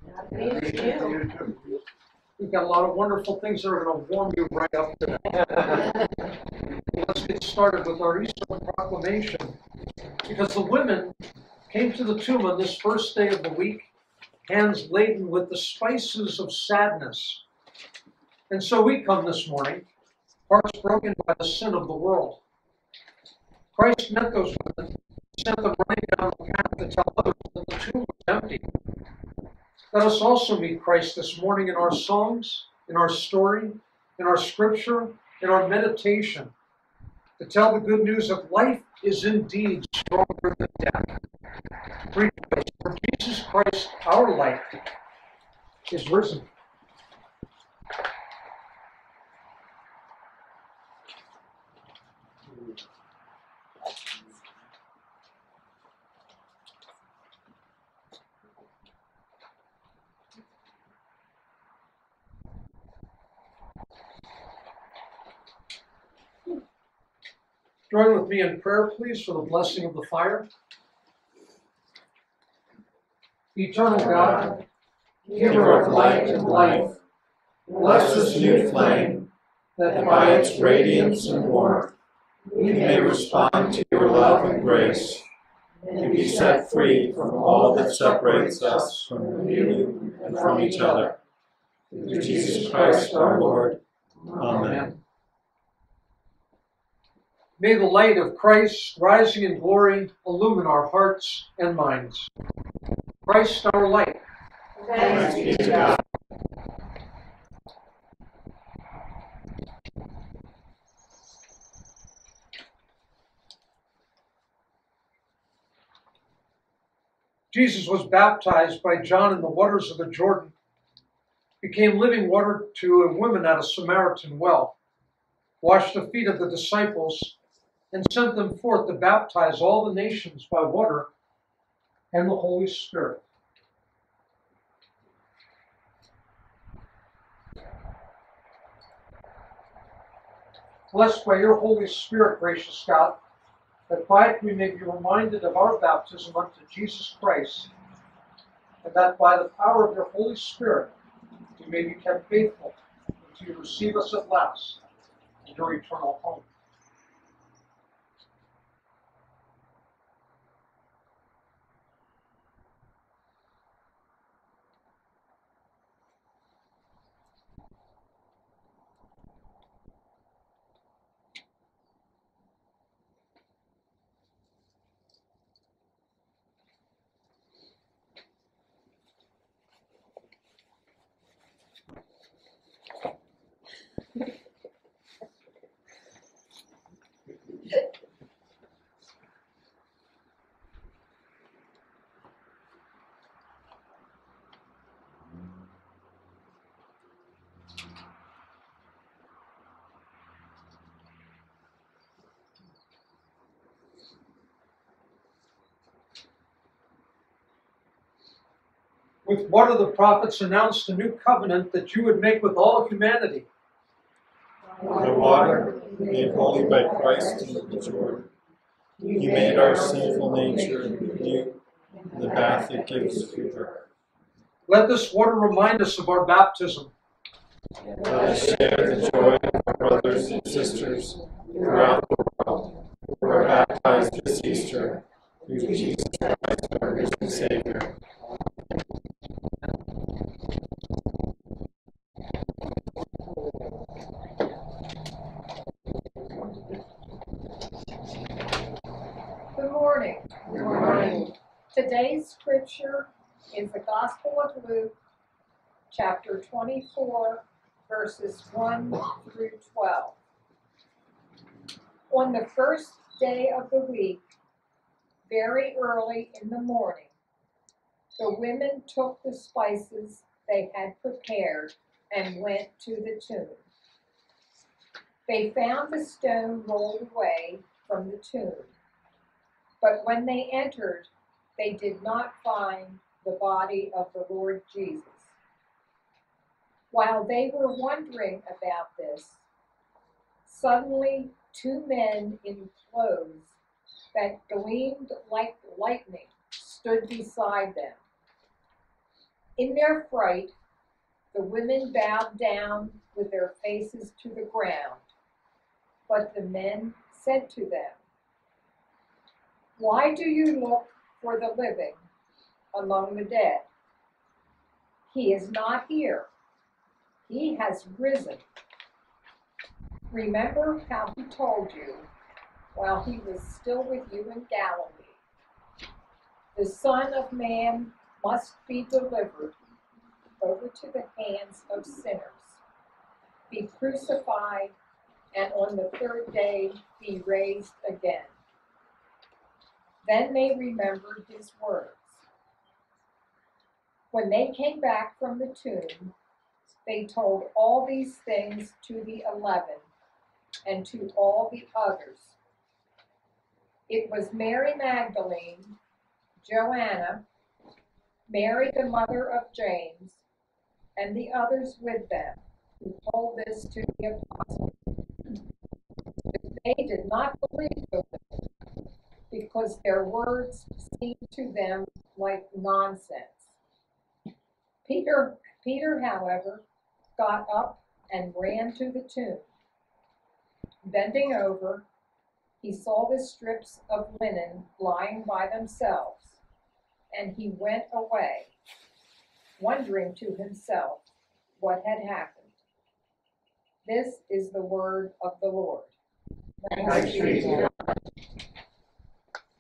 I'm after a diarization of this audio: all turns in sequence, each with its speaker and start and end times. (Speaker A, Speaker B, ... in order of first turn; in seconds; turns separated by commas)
Speaker A: 0.7-0.9, Speaker A: 2.4-6.1, Speaker A: 6.9-9.6, Speaker A: 10.2-11.1, Speaker A: 11.7-13.9, Speaker A: 14.4-17.4, Speaker A: 18.5-19.8, Speaker A: 20.5-22.4, Speaker A: 23.7-28.6, Speaker A: 29.9-36.5, Speaker A: 37.4-41.1, Speaker A: 42.1-44.8, Speaker A: 45.9-46.5, Speaker A: 67.9-70.5, Speaker A: 73.5-74.5, Speaker B: 75.3-76.9, Speaker A: 75.3-76.9, Speaker A: 77.8-78.7, Speaker B: 77.8-79.3, Speaker A: 79.8-80.4, Speaker B: 79.9-81.9, Speaker B: 82.5-85.2, Speaker B: 86.0-91.1, Speaker A: 87.7-89.1, Speaker A: 92.0-93.7, Speaker B: 92.0-93.8, Speaker B: 94.3-94.9, Speaker A: 94.3-95.0, Speaker A: 97.6-102.3, Speaker A: 103.2-104.2, Speaker B: 105.0-106.0, Speaker A: 117.5-120.5, Speaker A: 121.6-124.7, Speaker A: 125.6-127.3, Speaker A: 127.9-131.1, Speaker A: 132.1-133.2, Speaker A: 140.9-143.2, Speaker A: 143.9-147.7, Speaker A: 148.8-150.9, Speaker A: 151.6-154.8, Speaker A: 155.4-156.4, Speaker A: 209.2-213.5, Speaker B: 214.9-218.3, Speaker B: 219.1-221.6, Speaker B: 222.1-223.7, Speaker A: 224.7-226.9, Speaker B: 228.0-237.9, Speaker C: 249.5-254.9, Speaker C: 255.9-260.1, Speaker C: 262.1-264.2, Speaker C: 265.3-267.1, Speaker C: 268.2-273.6, Speaker C: 275.3-278.7, Speaker C: 279.8-285.3, Speaker C: 286.9-289.4, Speaker C: 290.4-293.5, Speaker C: 294.1-298.0, Speaker C: 299.6-300.5, Speaker C: 301.3-305.0, Speaker C: 306.1-308.0, Speaker C: 309.8-312.0, Speaker C: 312.7-313.6, Speaker C: 315.1-316.3, Speaker C: 317.3-318.4, Speaker C: 320.1-322.0, Speaker C: 322.7-325.1, Speaker C: 326.5-329.5, Speaker C: 330.4-332.6, Speaker C: 333.5-334.7, Speaker C: 335.3-338.3, Speaker C: 340.0-342.2, Speaker C: 344.1-346.1, Speaker C: 346.8-349.8, Speaker C: 350.6-352.3, Speaker C: 353.9-355.8, Speaker C: 356.4-357.2, Speaker C: 358.3-360.2, Speaker C: 360.9-364.8, Speaker C: 366.3-368.2, Speaker C: 369.3-373.5, Speaker C: 374.9-376.6, Speaker C: 377.2-379.4, Speaker C: 380.8-381.8, Speaker C: 382.6-386.4, Speaker C: 387.1-388.5, Speaker C: 389.6-391.0, Speaker C: 391.6-392.5, Speaker C: 393.8-395.9, Speaker C: 396.6-397.7, Speaker A: 396.9-397.6